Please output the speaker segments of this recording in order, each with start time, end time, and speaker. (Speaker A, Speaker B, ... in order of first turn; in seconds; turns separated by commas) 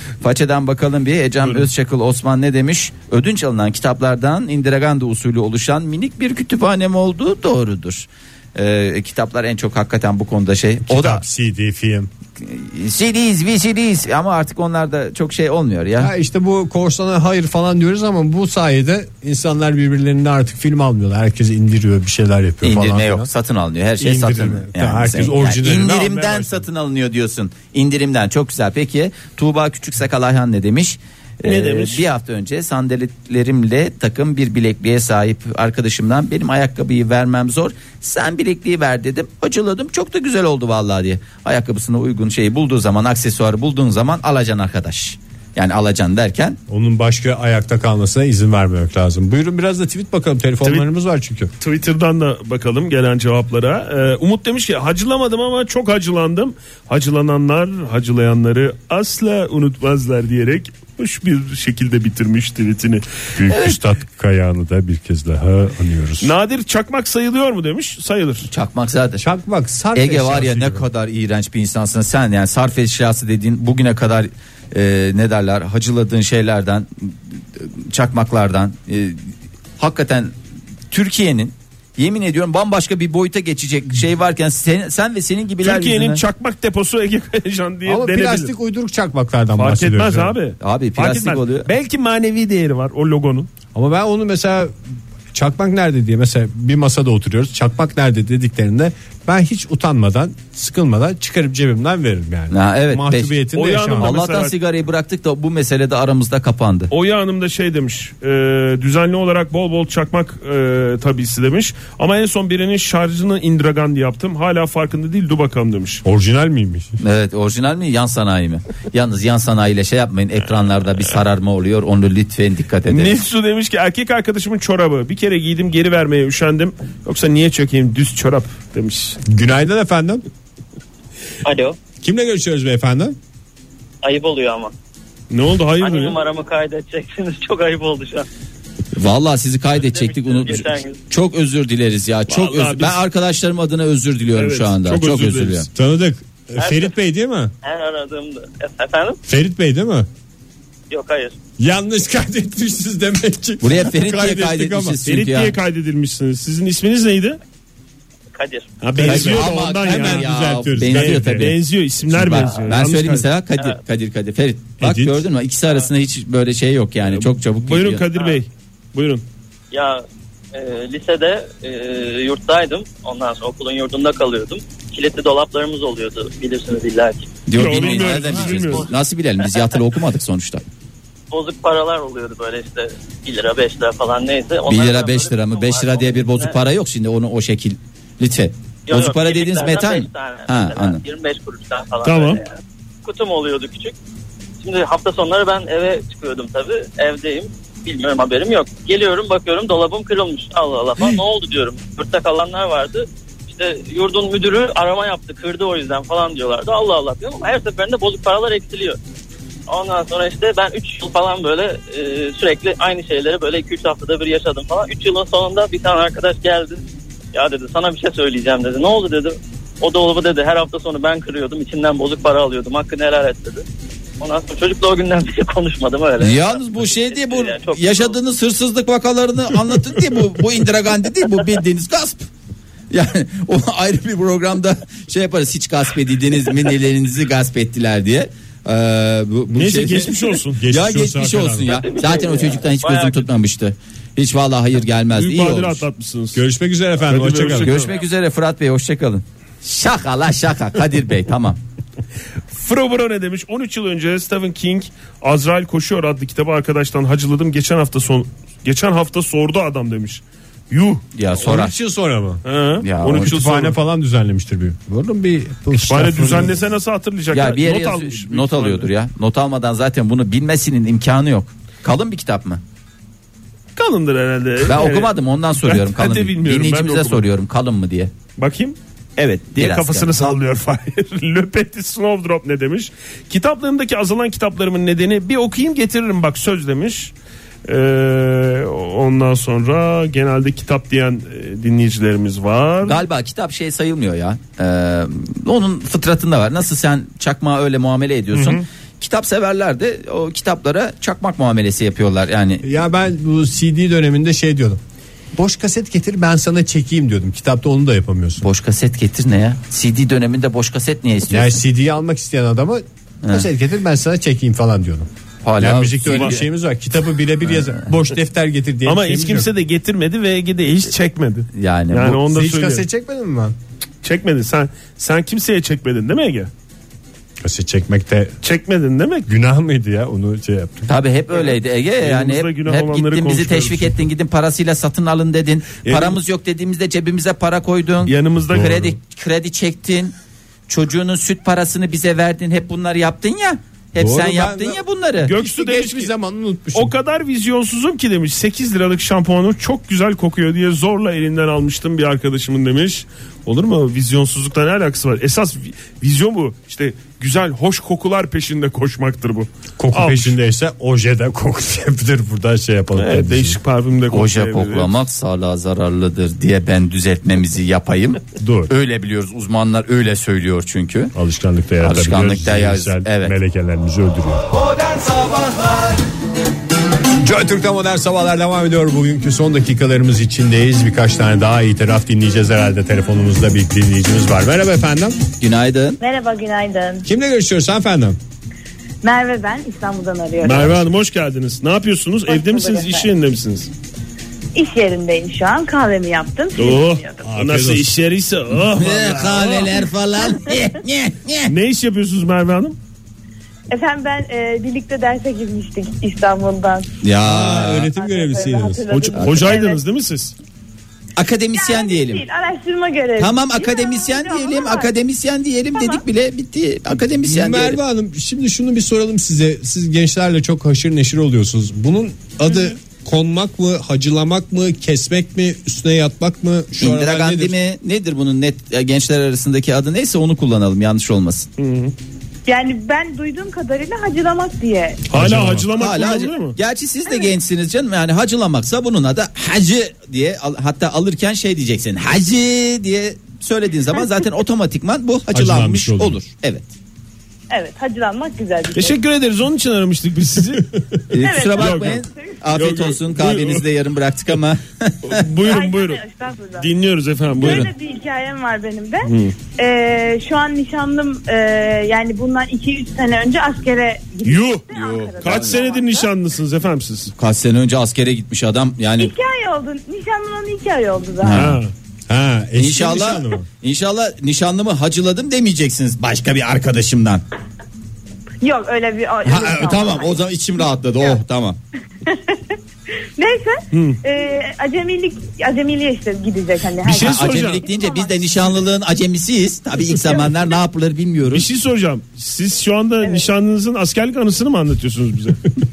Speaker A: 0.2-11.2, Speaker B: 1.4-1.7, Speaker C: 10.8-12.1, Speaker A: 12.4-16.1, Speaker C: 16.0-23.3, Speaker A: 22.6-46.6, Speaker C: 24.0-26.6, Speaker B: 31.4-32.0, Speaker C: 46.7-51.5, Speaker B: 51.6-63.0, Speaker C: 63.4-66.3, Speaker A: 63.5-63.8, Speaker B: 66.2-68.5, Speaker A: 68.5-69.2, Speaker C: 69.2-70.8, Speaker A: 69.9-79.2, Speaker A: 79.8-80.3, Speaker A: 80.9-86.2, Speaker B: 85.6-88.5, Speaker C: 87.8-90.3, Speaker B: 89.6-93.5, Speaker A: 90.6-91.7, Speaker C: 93.7-94.7, Speaker C: 95.3-104.1, Speaker A: 102.5-103.3, Speaker B: 103.5-104.5, Speaker A: 104.0-106.9, Speaker B: 106.9-116.0, Speaker C: 116.0-117.0, Speaker A: 117.0-123.2, Speaker B: 122.9-129.2, Speaker C: 129.2-130.2, Speaker D: 131.4-131.8, Speaker C: 132.0-133.2, Speaker D: 134.0-134.7, Speaker B: 135.3-136.2, Speaker D: 135.8-138.3, Speaker A: 138.9-145.7, Speaker D: 139.8-141.0, Speaker B: 142.3-143.0, Speaker B: 144.3-145.7, Speaker C: 145.7-147.5, Speaker D: 146.6-146.9, Speaker D: 147.6-149.2, Speaker C: 149.2-150.1, Speaker D: 150.9-151.3, Speaker C: 151.6-155.0, Speaker A: 153.6-155.5, Speaker B: 155.0-157.4, Speaker D: 158.3-158.8, Speaker B: 158.8-160.3, Speaker C: 158.9-161.6, Speaker A: 159.0-161.6, Speaker B: 160.8-163.3, Speaker A: 162.1-168.1, Speaker C: 164.8-165.3, Speaker B: 167.1-169.2, Speaker D: 168.1-168.4, Speaker D: 169.7-177.3, Speaker A: 177.4-180.6, Speaker B: 177.5-178.9, Speaker D: 177.8-178.9, Speaker D: 181.3-186.6, Speaker A: 184.7-191.0, Speaker D: 188.9-192.5, Speaker B: 192.0-192.4, Speaker D: 193.0-193.9, Speaker D: 194.6-209.0, Speaker D: 209.7-223.6, Speaker D: 224.2-228.2, Speaker A: 226.2-232.3, Speaker A: 232.9-245.8, Speaker B: 239.5-240.6, Speaker C: 240.5-241.7, Speaker D: 241.7-243.3, Speaker B: 245.1-246.4, Speaker C: 246.3-247.8, Speaker B: 247.0-247.9, Speaker A: 247.6-251.6, Speaker B: 252.5-261.0, Speaker A: 261.1-261.8, Speaker C: 261.3-262.4, Speaker B: 262.4-263.8, Speaker A: 262.8-263.3, Speaker C: 263.1-266.6, Speaker B: 265.8-268.9, Speaker A: 267.3-272.6, Speaker B: 273.8-277.3, Speaker A: 274.6-278.1, Speaker B: 278.4-278.8, Speaker A: 279.2-280.2, Speaker B: 279.5-287.1, Speaker B: 287.6-293.0, Speaker A: 292.8-302.6, Speaker C: 302.6-304.8, Speaker C: 305.3-308.5, Speaker A: 308.4-311.6, Speaker C: 311.3-319.5, Speaker A: 313.2-313.5, Speaker A: 315.4-316.4, Speaker B: 318.8-322.9, Speaker A: 321.5-322.2, Speaker C: 322.3-323.6, Speaker B: 324.0-326.5, Speaker C: 327.4-328.4, Speaker B: 328.4-329.3, Speaker C: 329.2-330.9, Speaker A: 330.9-340.1, Speaker B: 331.4-334.0, Speaker B: 335.8-336.2, Speaker B: 338.1-338.9, Speaker C: 338.5-338.9, Speaker A: 340.7-345.4, Speaker C: 344.0-344.8, Speaker B: 345.2-346.1, Speaker C: 345.4-346.9, Speaker B: 346.7-360.3, Speaker C: 359.8-363.6, Speaker B: 362.9-364.9, Speaker A: 364.1-371.1, Speaker C: 368.4-368.7, Speaker C: 371.1-374.5, Speaker A: 371.8-373.3, Speaker C: 377.2-385.2, Speaker A: 385.4-386.0, Speaker E: 386.0-387.1, Speaker C: 387.0-388.2, Speaker E: 389.0-390.7, Speaker B: 390.4-393.7, Speaker E: 392.3-393.1, Speaker E: 394.5-397.2, Speaker B: 396.6-399.8, Speaker C: 397.2-397.9, Speaker A: 398.8-401.5, Speaker B: 401.5-402.8, Speaker E: 403.7-406.9, Speaker A: 407.0-407.9, Speaker C: 407.2-408.9, Speaker E: 407.9-409.8, Speaker B: 408.9-410.3, Speaker A: 409.2-409.5, Speaker A: 411.1-412.2, Speaker E: 411.5-414.9, Speaker A: 413.2-417.8, Speaker E: 415.7-416.0, Speaker C: 417.2-427.6, Speaker A: 426.7-431.5, Speaker B: 431.6-431.9, Speaker E: 432.4-435.1, Speaker B: 435.1-436.6, Speaker C: 435.1-435.7, Speaker A: 435.8-446.7, Speaker C: 445.3-446.2, Speaker E: 447.5-449.0, Speaker B: 448.7-450.7, Speaker A: 451.1-455.2, Speaker E: 451.1-452.1, Speaker B: 451.5-452.0, Speaker B: 452.5-453.6, Speaker B: 455.0-456.0, Speaker E: 455.4-456.7, Speaker B: 456.6-457.7, Speaker E: 457.4-466.1, Speaker A: 457.4-457.7, Speaker B: 459.0-459.3, Speaker B: 464.2-464.6, Speaker A: 464.7-465.6, Speaker B: 465.2-467.1, Speaker A: 467.1-469.1, Speaker E: 469.0-471.4, Speaker A: 471.2-471.6, Speaker B: 471.3-471.7, Speaker C: 472.1-473.4, Speaker A: 472.6-477.2, Speaker E: 478.4-480.2, Speaker A: 479.2-481.6, Speaker E: 482.0-482.6, Speaker E: 483.2-488.2, Speaker B: 483.7-484.0, Speaker B: 486.8-487.6, Speaker A: 486.9-491.4, Speaker E: 489.9-490.4, Speaker B: 491.3-495.4